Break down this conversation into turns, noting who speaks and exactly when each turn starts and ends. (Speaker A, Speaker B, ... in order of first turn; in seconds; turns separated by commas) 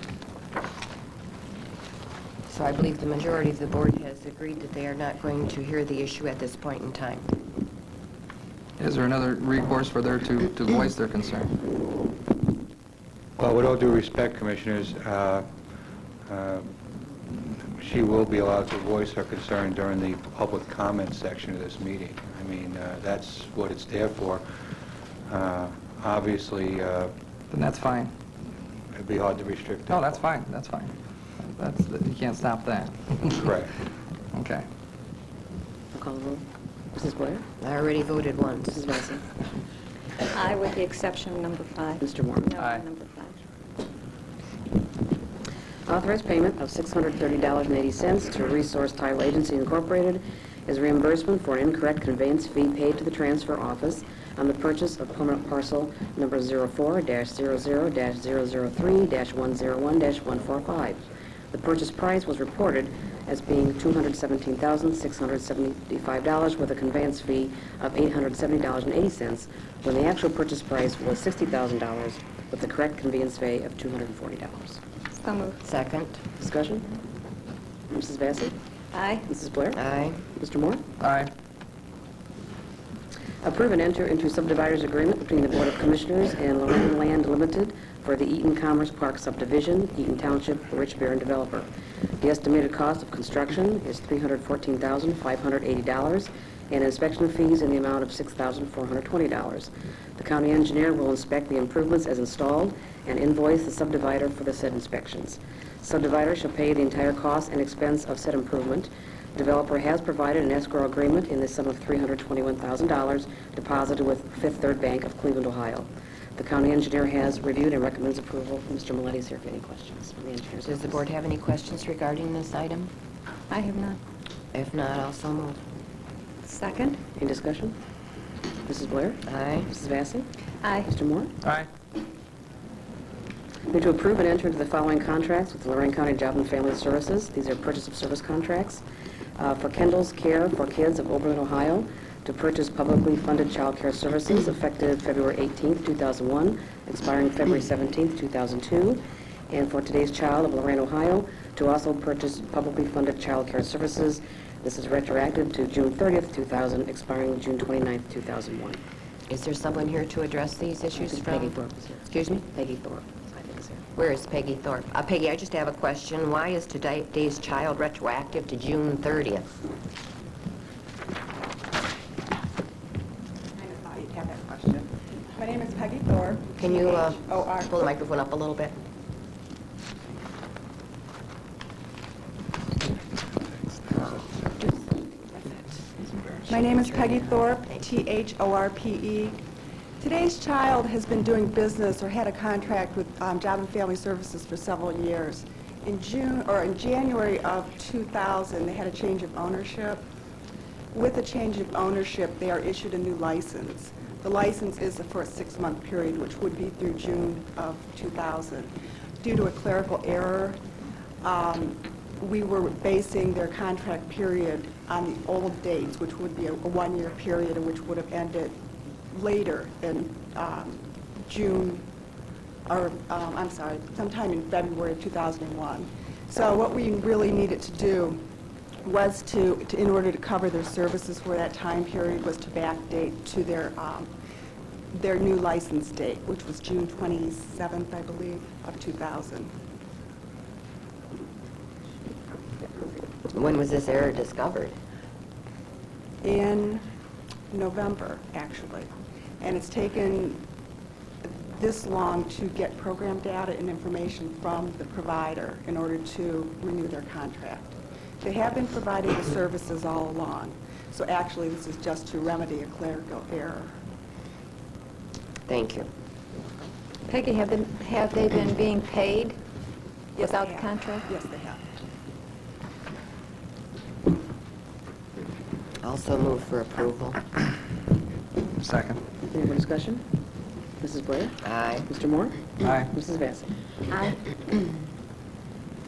Speaker A: 2.5-7.4, Speaker B: 8.8-11.6, Speaker C: 13.4-15.5, Speaker C: 16.3-24.4, Speaker C: 25.3-27.1, Speaker B: 27.5-28.1, Speaker C: 28.9-30.2, Speaker B: 29.9-33.5, Speaker C: 33.3-33.7, Speaker B: 34.3-34.7, Speaker D: 35.9-37.5, Speaker A: 37.6-38.8, Speaker D: 38.7-39.2, Speaker E: 40.3-43.4, Speaker D: 42.0-42.6, Speaker B: 42.6-42.8, Speaker D: 45.9-74.8, Speaker E: 75.2-75.6, Speaker A: 75.6-76.2, Speaker D: 76.4-77.0, Speaker D: 77.9-78.5, Speaker E: 78.9-79.3, Speaker D: 79.2-80.8, Speaker A: 79.7-80.2, Speaker B: 81.0-81.3, Speaker D: 83.4-121.1, Speaker A: 120.6-122.9, Speaker E: 123.5-124.0, Speaker A: 124.5-125.6, Speaker E: 126.5-127.0, Speaker D: 127.2-127.8, Speaker D: 128.7-130.3, Speaker A: 129.3-129.7, Speaker E: 130.6-130.9, Speaker D: 130.8-131.3, Speaker D: 133.7-138.8, Speaker D: 139.4-158.8, Speaker A: 159.3-162.5, Speaker D: 161.0-163.8, Speaker A: 163.9-169.6, Speaker F: 173.6-177.8, Speaker A: 176.6-178.8, Speaker F: 184.5-185.8, Speaker F: 186.5-189.4, Speaker F: 190.0-200.1, Speaker F: 200.9-210.6, Speaker F: 211.2-218.6, Speaker F: 219.1-221.8, Speaker F: 222.7-228.2, Speaker F: 228.8-234.1, Speaker F: 234.9-239.5, Speaker A: 243.3-244.8, Speaker F: 246.2-246.9, Speaker F: 247.5-250.4, Speaker F: 251.2-263.7, Speaker A: 265.5-265.9, Speaker E: 267.1-269.4, Speaker F: 270.2-271.6, Speaker E: 270.2-271.1, Speaker A: 275.8-277.2, Speaker B: 278.6-279.0, Speaker D: 279.3-280.1, Speaker D: 280.8-283.6, Speaker A: 281.4-281.9, Speaker B: 282.6-282.9